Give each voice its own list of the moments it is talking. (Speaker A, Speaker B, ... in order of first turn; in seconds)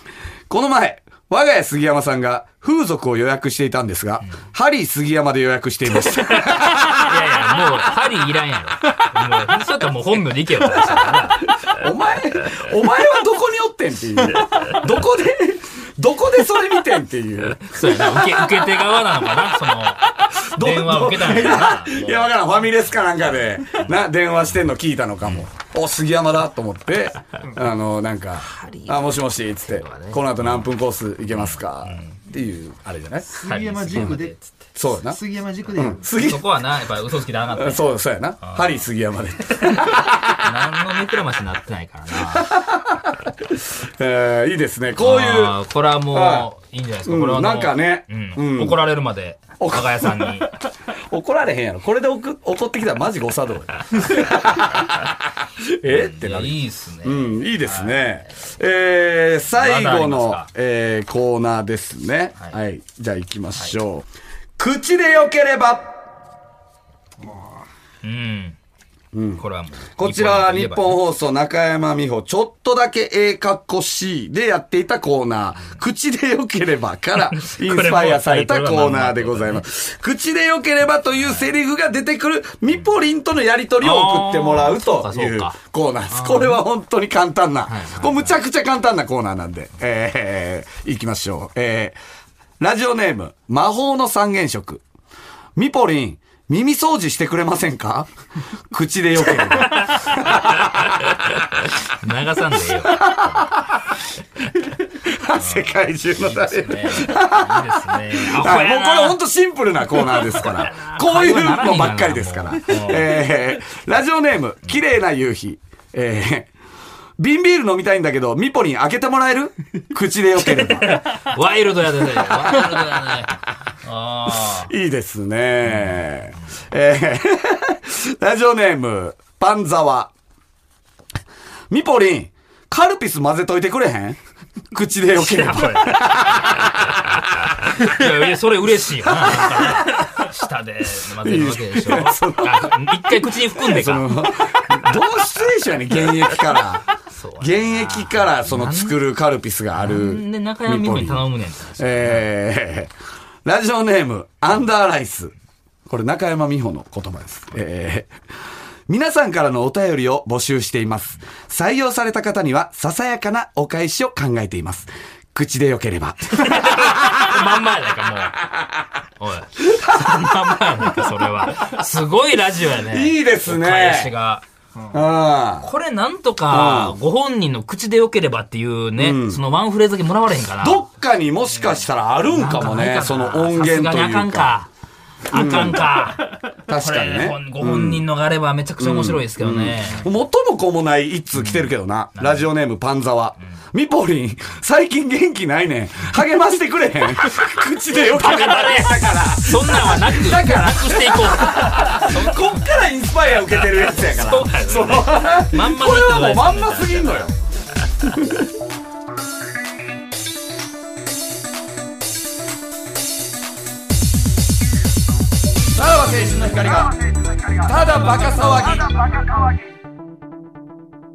Speaker A: 0.5-7.2, 11.7-33.2, 33.9-34.2, 34.8-35.2, 35.8-36.5, 37.5-40.5, 42.3-45.6, 46.1-46.5, 47.0-48.8, 49.6-50.4, 51.1-64.1, 64.6-66.0, 69.1-92.0, 92.6-94.8, 95.5-98.1, 98.7-101.0, 102.8-103.7, 104.9-116.5, 117.2-121.1, 122.2-122.8, 124.4-130.1, 131.7-134.2, 134.7-137.0, 139.2-140.0, 141.2-146.8, 147.4-151.2, 151.8-152.9, 153.4-155.3, 155.9-158.1, 158.9-167.4, 168.4-168.9, 169.6-171.0, 172.9-174.1, 174.9-175.7, 176.5-176.9, 179.0-179.4, 180.6-184.5, 185.3-185.9, 186.7-188.0, 188.8-207.3, 208.1-208.5, 215.7-216.9, 217.5-219.0
Speaker B: 5.9-11.7, 17.6-22.3, 28.4-30.6, 31.3-32.1, 33.4-34.4, 36.1-38.8, 39.6-42.5, 45.0-50.5, 55.9-58.2, 59.5-60.5, 68.0-68.6, 69.4-71.0, 77.3-79.6, 83.8-85.6, 86.1-86.6, 87.7-88.3, 99.7-103.5, 105.3-109.2, 109.9-113.2, 120.4-124.7, 125.6-126.0, 135.2-146.3, 147.1-148.9, 149.7-152.3, 166.4-168.4, 169.2-174.4, 175.6-180.8, 182.3-184.7, 185.3-190.1, 191.3-192.4, 198.0-202.7, 203.5-207.3
Speaker C: 33.3-36.1